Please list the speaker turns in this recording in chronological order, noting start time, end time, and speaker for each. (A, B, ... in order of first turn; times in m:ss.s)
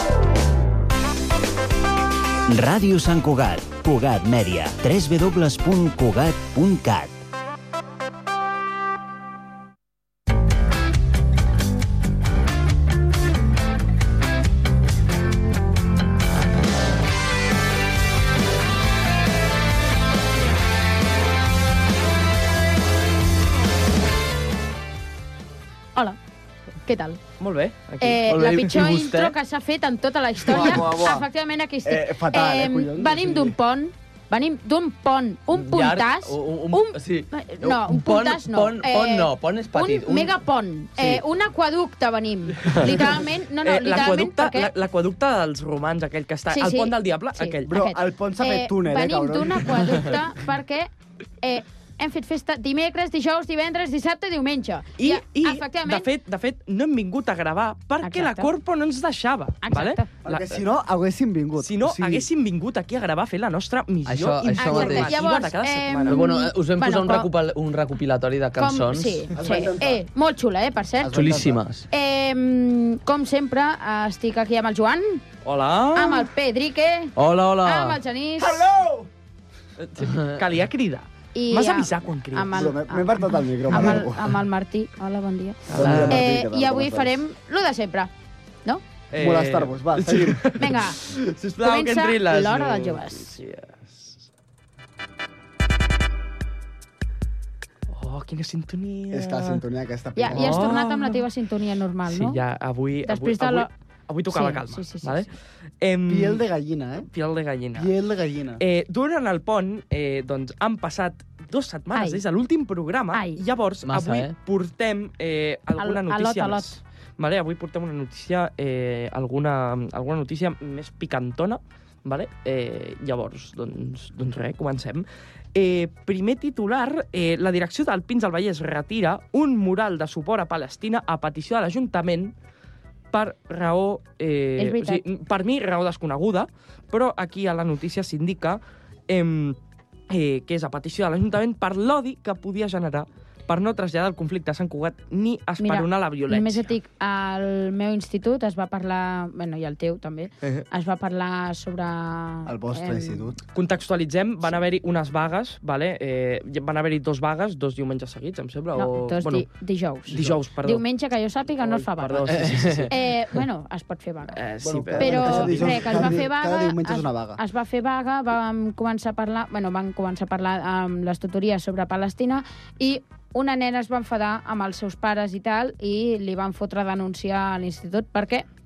0:02.5-0:07.2 A
0:26.8-0:27.2 B
0:27.4-0:28.6 C
0:28.0-0:44.7 B
0:28.3-0:29.4 D
0:30.5-0:31.2 E
0:31.8-0:33.5 E
0:35.5-0:40.4 D
0:41.0-0:41.2 D
0:42.7-0:43.0 C
0:43.6-0:47.7 C
0:46.5-0:56.1 B
0:47.6-0:50.1 E
0:55.0-1:00.6 C
0:58.0-0:58.5 B
0:59.6-1:00.1 B
1:00.2-1:02.2 E
1:01.6-1:06.2 C
1:04.0-1:05.2 D
1:04.5-1:07.3 B
1:06.0-1:09.3 D
1:08.6-1:11.3 B
1:09.4-1:10.0 E
1:11.0-1:11.6 E
1:11.1-1:11.8 D
1:11.9-1:15.2 B
1:15.4-1:16.3 C
1:15.9-1:18.6 B
1:17.2-1:18.0 D
1:18.4-1:19.1 E
1:19.8-1:22.5 C
1:20.0-1:20.4 D
1:21.3-1:28.1 B
1:22.5-1:24.4 E
1:25.7-1:26.2 C
1:25.7-1:27.2 E
1:29.1-1:34.2 C
1:29.2-1:30.6 E
1:30.5-1:31.0 B
1:31.6-1:33.4 B
1:37.9-1:39.6 C
1:39.1-1:40.7 E
1:40.2-1:42.4 B
1:40.3-1:41.2 C
1:42.1-1:46.4 C
1:43.0-1:43.7 B
1:44.3-1:45.3 B
1:46.1-1:47.1 E
1:47.1-1:47.9 C
1:47.7-1:48.6 E
1:48.6-2:12.3 C
1:51.9-1:52.2 B
1:53.1-1:53.4 B
1:53.8-1:54.3 D
1:55.8-1:56.8 B
2:13.1-2:19.6 C
2:14.6-2:15.0 B
2:20.1-2:26.7 C
2:25.6-2:33.3 B
2:32.4-2:33.4 E
2:33.5-2:39.4 C
2:38.8-2:42.3 B
2:40.1-2:40.8 C
2:41.6-2:42.9 C
2:42.3-2:42.9 D
2:42.9-2:44.4 B
2:44.3-2:46.1 C
2:44.6-2:47.4 E
2:45.0-2:58.4 B